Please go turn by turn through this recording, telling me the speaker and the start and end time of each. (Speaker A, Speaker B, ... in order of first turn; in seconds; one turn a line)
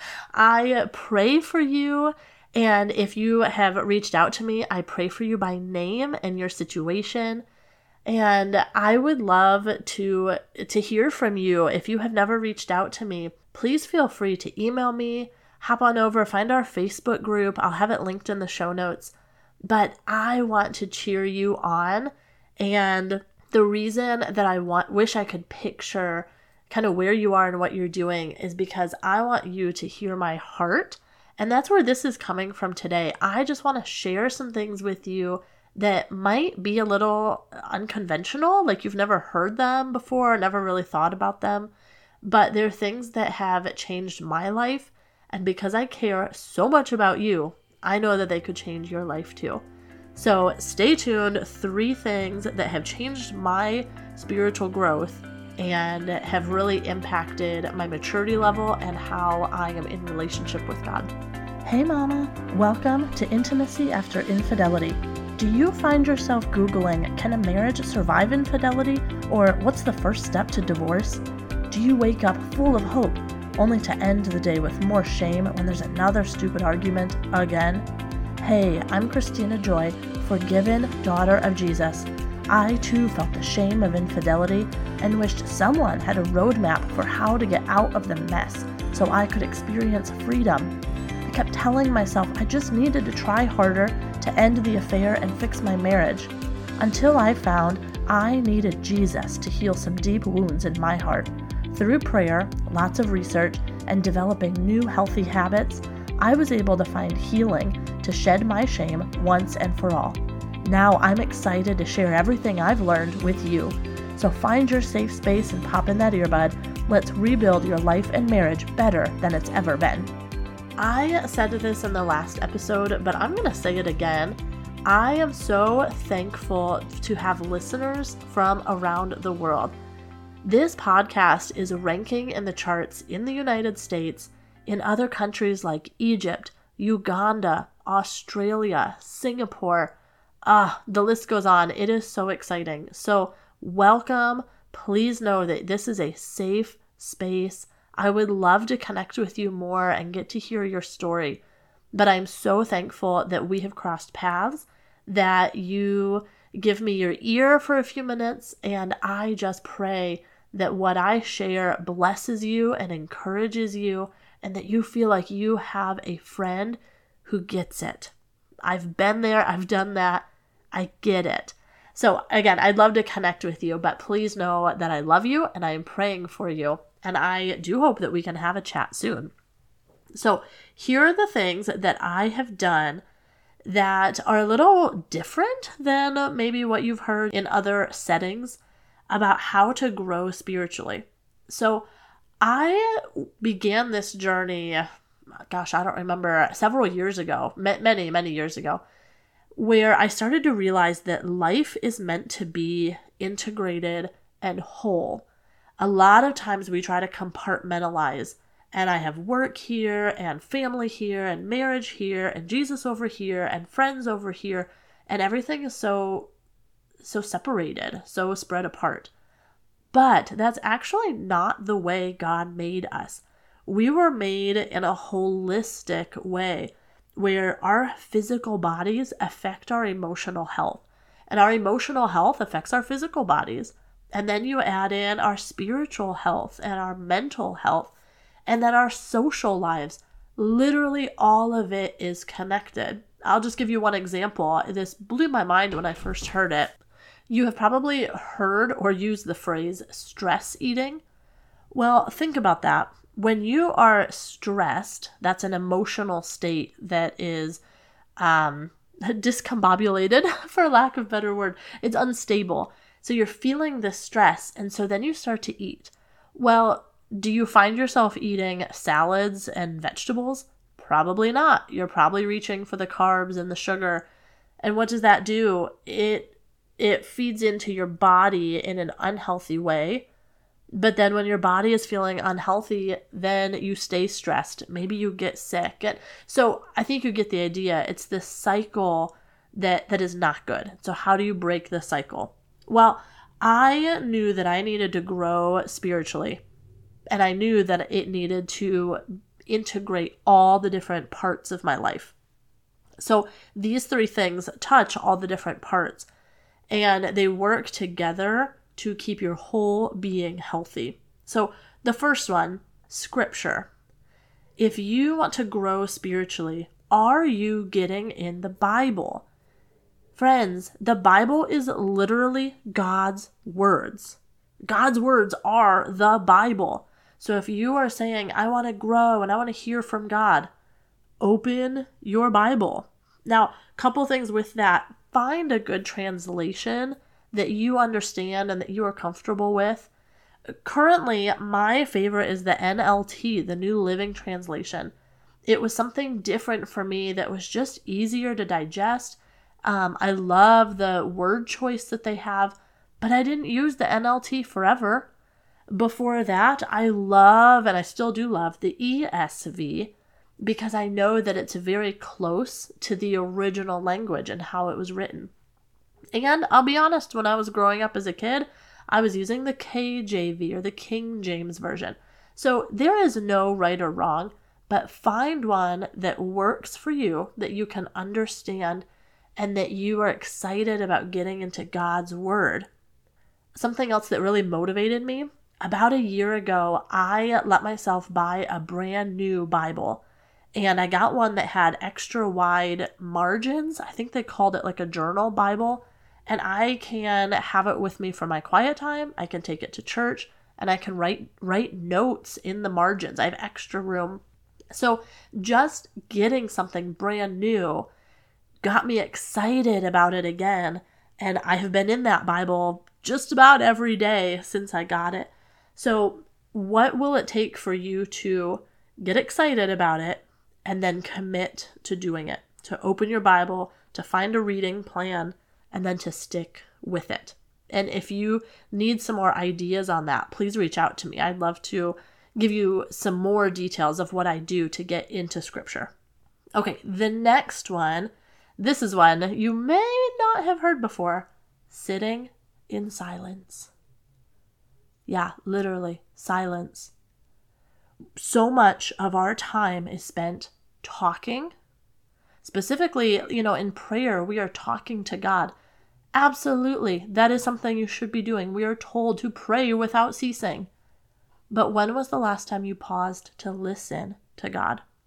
Speaker A: 0.3-7.5
Speaker A: 8.1-41.7
Speaker A: 42.2-49.6
Speaker A: 50.1-61.1
Speaker A: 61.6-77.9
Speaker A: 78.4-120.1
Speaker A: 120.8-129.8
Speaker A: 130.4-139.9
Speaker A: 140.5-151.4
Speaker A: 151.9-179.3
Speaker A: 180.2-183.1
Speaker A: 183.7-191.9
Speaker A: 192.4-194.9
Speaker A: 195.5-198.8
Speaker A: 199.6-205.3
Speaker A: 205.8-216.3
Speaker A: 217.0-219.1
Speaker A: 219.9-237.9
Speaker A: 238.5-246.8
Speaker A: 247.3-251.0
Speaker A: 251.7-257.6
Speaker A: 258.2-274.1
Speaker A: 274.6-280.1
Speaker A: 280.7-296.4
Speaker A: 297.1-302.2
Speaker A: 303.0-306.1
Speaker A: 306.7-313.7
Speaker A: 314.6-319.3
Speaker A: 320.1-330.5
Speaker A: 331.2-339.9
Speaker A: 340.6-344.9
Speaker A: 345.5-355.1
Speaker A: 355.7-365.3
Speaker A: 366.1-382.7
Speaker A: 383.6-390.0
Speaker A: 390.6-407.9
Speaker A: 408.6-435.9
Speaker A: 436.6-443.7
Speaker A: 445.1-446.9
Speaker A: 448.2-451.6
Speaker A: 452.4-455.5
Speaker A: 456.1-460.7
Speaker A: 461.5-464.8